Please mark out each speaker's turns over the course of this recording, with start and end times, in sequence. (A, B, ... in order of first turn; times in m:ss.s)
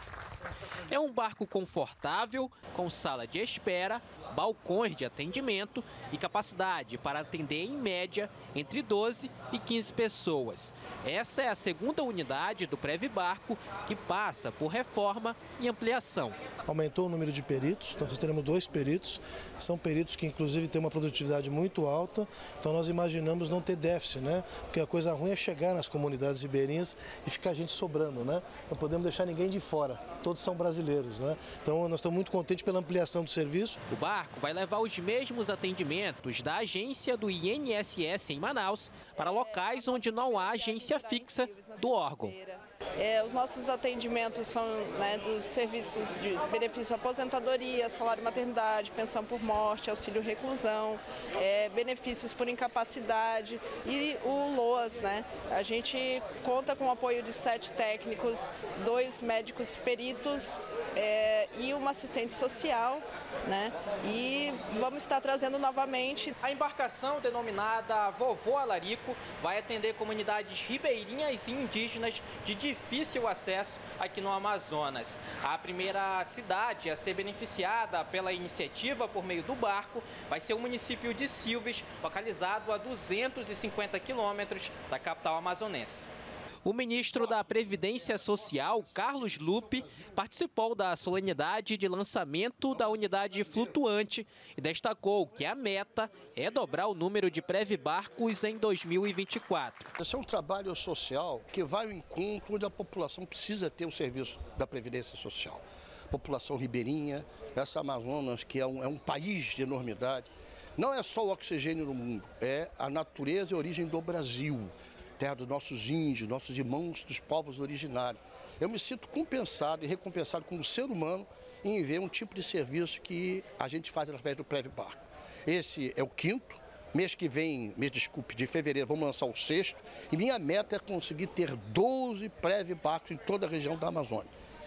0:00.9-0:16.4 A
0:16.6-0:33.8 B
0:33.9-0:42.3 A
0:39.2-1:06.3 C
1:06.4-1:26.1 A
1:26.6-1:39.9 A
1:40.0-2:14.3 D